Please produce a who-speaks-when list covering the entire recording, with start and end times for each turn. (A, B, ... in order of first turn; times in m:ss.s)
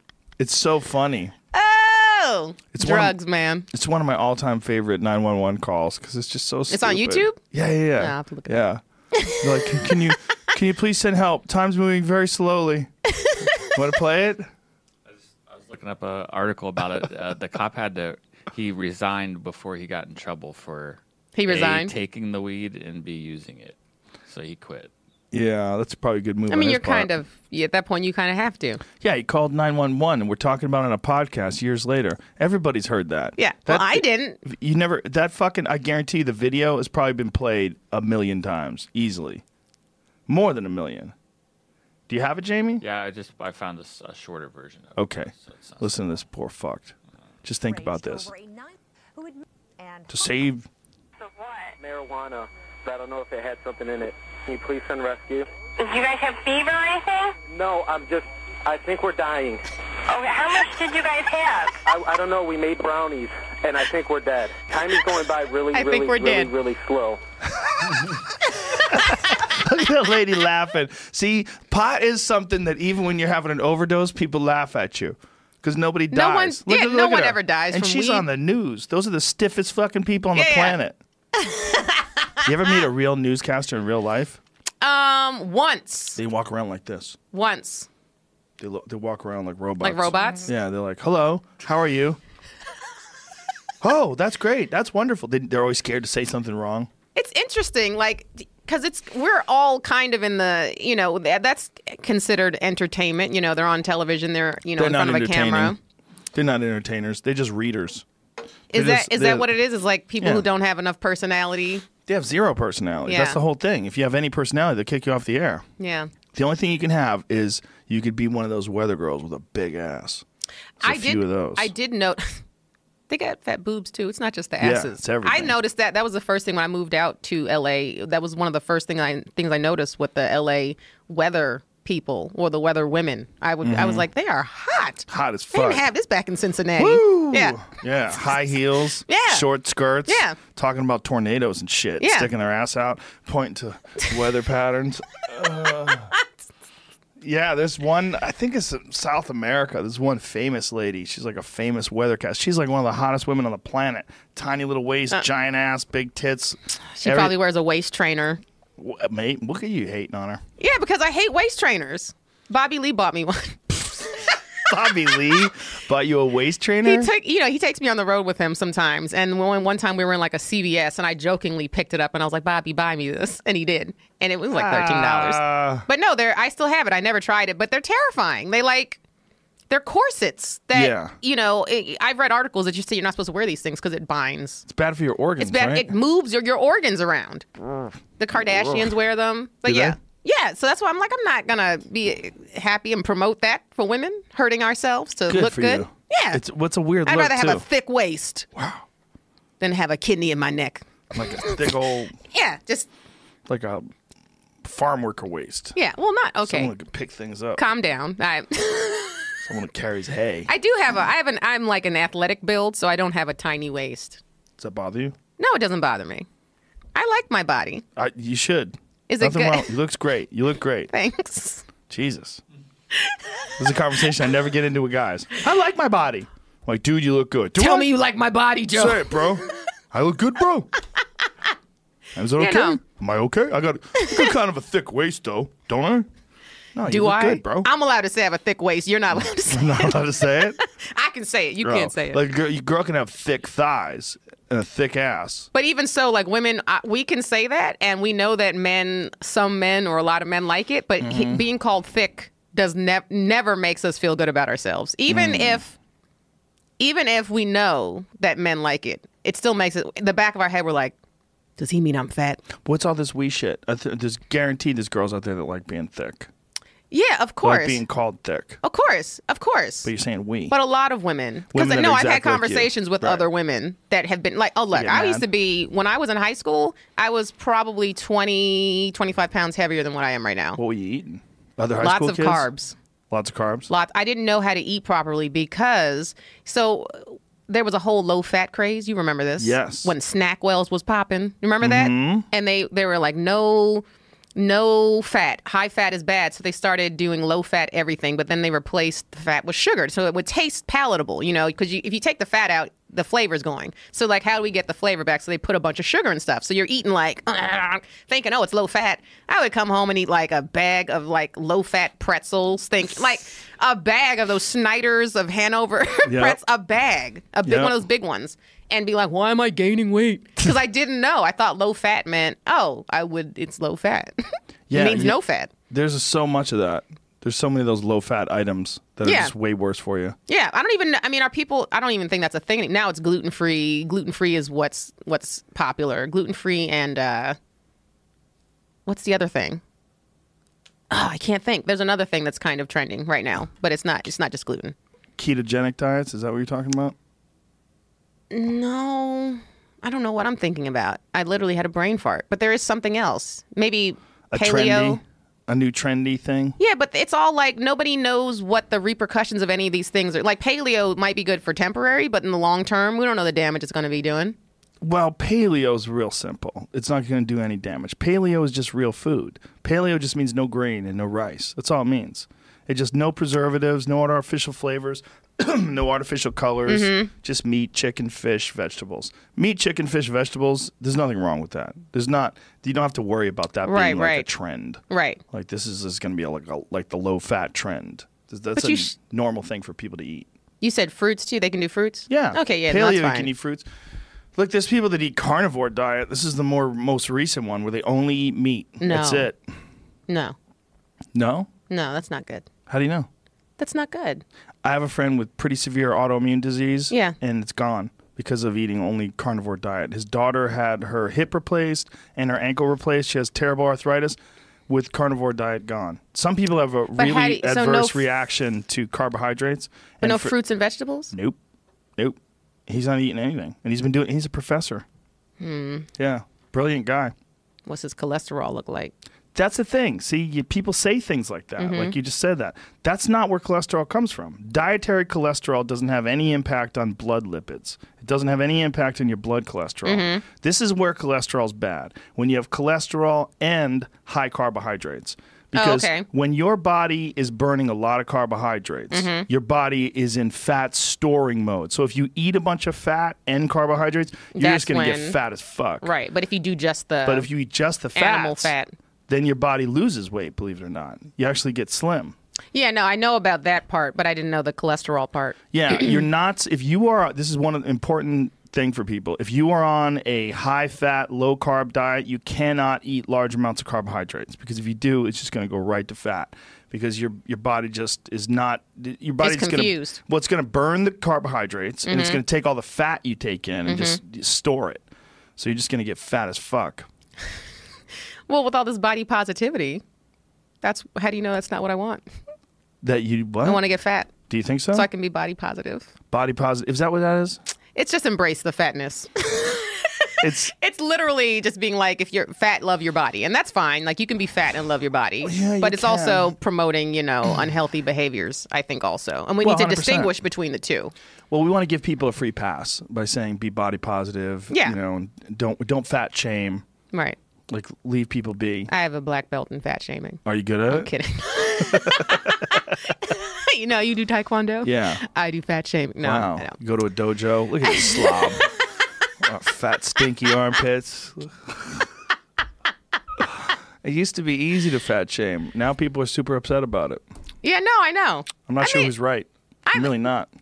0:00.4-0:01.3 A
0:01.5-0:03.7 B
0:02.7-0:03.2 A
0:03.7-0:12.9 A
0:06.7-0:08.6 B
0:09.1-0:10.1 B
0:13.3-0:13.7 B
0:13.5-0:14.5 A
0:15.1-0:24.9 C
0:21.4-0:21.9 B
0:25.3-0:27.1 A
0:26.5-0:28.8 B
0:29.0-0:39.4 A
0:33.4-0:34.4 B
0:40.3-0:41.1 A
0:42.1-0:42.8 A
0:42.8-0:46.2 C
0:45.0-0:48.3 A
0:47.7-0:50.1 D
0:50.1-0:50.7 A
0:51.2-0:51.8 D
0:51.8-0:55.5 E
0:55.8-0:57.4 D
0:57.5-0:59.7 E
1:00.1-1:01.8 D
1:01.8-1:07.2 E
1:05.7-1:06.5 B
1:08.9-1:21.0 A
1:16.1-1:18.3 B
1:20.4-1:20.8 B
1:21.3-1:22.3 B
1:22.4-1:24.4 A
1:24.8-1:26.2 B
1:26.2-1:27.2 A
1:27.3-1:27.9 B
1:28.6-1:32.2 A
1:29.8-1:30.5 B
1:33.8-1:36.9 A
1:37.2-1:45.8 B
1:44.8-1:45.8 A
1:46.3-1:48.0 A
1:48.7-1:51.9 B
1:48.7-1:49.5 A
1:50.2-1:50.5 A
1:52.1-1:55.7 A
1:53.1-1:53.4 B
1:55.8-1:56.1 B
1:56.3-2:00.2 A
2:00.8-2:01.7 A
2:00.8-2:02.4 B
2:03.1-2:17.7 B
2:04.6-2:05.6 A
2:13.6-2:14.1 A
2:15.1-2:15.8 A
2:16.8-2:26.1 A
2:19.1-2:19.5 B
2:20.1-2:20.4 B
2:22.0-2:22.3 B
2:27.2-2:37.4 A
2:37.0-2:38.4 B
2:38.8-2:40.4 A
2:40.6-2:44.4 B
2:44.7-2:47.1 A
2:46.8-2:59.0 B
2:54.6-2:55.9 A
2:59.7-3:04.7 B
3:00.7-3:01.1 A
3:04.7-3:05.9 A
3:05.4-3:16.4 B
3:08.4-3:08.9 A
3:09.7-3:10.0 A
3:15.3-3:17.6 A
3:17.0-3:18.5 B
3:18.6-3:18.8 A
3:19.6-3:20.8 B
3:21.1-3:22.2 A
3:21.4-3:22.9 B
3:23.5-3:23.9 A
3:24.6-3:25.8 A
3:25.8-3:26.7 B
3:26.4-3:27.6 A
3:27.6-3:29.3 B
3:29.4-3:30.5 A
3:30.5-3:34.2 B
3:34.6-3:35.2 A
3:35.4-3:36.3 B
3:37.0-3:37.8 B
3:38.0-3:40.9 A
3:39.1-3:39.7 B
3:40.9-3:41.7 B
3:41.9-3:42.4 A
3:43.6-3:47.9 A
3:47.6-3:49.5 B
3:48.7-3:50.7 A
3:52.2-3:56.1 A
3:52.4-3:52.8 B
3:54.0-3:54.3 B
3:56.8-3:57.7 A
3:56.9-4:02.2 B
3:59.5-4:00.6 A
4:01.6-4:05.5 A
4:05.5-4:15.7 B
4:11.0-4:11.4 A
4:15.1-4:15.6 A
4:16.8-4:20.9 B
4:21.6-4:22.4 B
4:22.6-4:26.3 A
4:26.9-4:27.8 B
4:27.4-4:28.6 A
4:28.6-4:29.9 B
4:29.8-4:30.6 A
4:30.5-4:40.6 B
4:31.5-4:33.2 A
4:34.7-4:35.2 A
4:40.6-4:42.5 A
4:41.8-4:42.8 B
4:43.1-4:43.7 A
4:43.7-4:53.8 B
4:49.4-4:49.9 A
4:51.6-4:52.3 A
4:54.4-5:25.5 B
5:16.0-5:16.4 A
5:17.4-5:17.8 A
5:24.7-5:25.2 A
5:25.7-5:30.2 A
5:29.0-5:29.3 B
5:30.3-5:37.4 B
5:38.9-5:39.6 B
5:40.9-5:44.8 B
5:45.2-5:47.0 A
5:48.3-5:55.0 B
5:54.3-5:56.6 A
5:56.6-6:04.4 B
6:04.8-6:30.3 A
6:16.7-6:17.1 B
6:23.7-6:24.3 B
6:24.9-6:25.2 B
6:28.6-6:28.9 B
6:30.6-6:33.3 B
6:32.1-6:33.7 A
6:34.4-6:39.5 A
6:38.8-6:39.3 B
6:40.1-6:40.4 B
6:41.2-6:41.5 A
6:41.7-6:42.5 B
6:42.7-6:43.1 A
6:43.6-6:44.2 B
6:44.6-6:54.2 A
6:46.9-6:47.2 B
6:54.7-7:00.3 A
6:57.0-6:58.0 B
7:00.0-7:01.1 B
7:01.1-7:01.4 A
7:02.0-7:04.8 A
7:05.4-7:05.9 B
7:06.0-7:07.1 A
7:07.7-7:08.9 B
7:09.4-7:35.9 A
7:11.6-7:12.0 B
7:19.8-7:20.2 B
7:25.5-7:26.1 B
7:28.9-7:29.3 B
7:34.4-7:35.2 B
7:35.8-7:37.3 B
7:37.0-7:38.5 A
7:38.0-7:38.7 B
7:39.1-7:42.2 A
7:42.5-7:46.0 B
7:45.5-8:04.8 A
7:59.2-8:00.0 B
8:01.9-8:02.2 B
8:03.7-8:04.0 B
8:05.4-8:06.9 A
8:08.3-8:09.8 B
8:10.6-8:12.0 B
8:12.8-8:13.6 A
8:13.4-8:14.2 B
8:14.3-8:14.9 A
8:14.7-8:15.9 B
8:16.1-8:17.4 A
8:17.8-8:30.9 B
8:20.2-8:20.5 A
8:25.2-8:26.3 A
8:29.4-8:30.1 A
8:31.3-8:36.6 A
8:36.9-8:37.2 B
8:37.5-8:38.7 A
8:38.7-8:46.6 B
8:40.2-8:40.9 A
8:41.6-8:42.9 A
8:44.6-8:45.0 A
8:46.0-8:48.5 A
8:47.6-8:48.6 B
8:49.2-8:51.8 A
8:53.8-8:57.0 A
8:57.4-8:58.9 B
8:58.5-9:00.3 A
8:59.7-8:59.9 B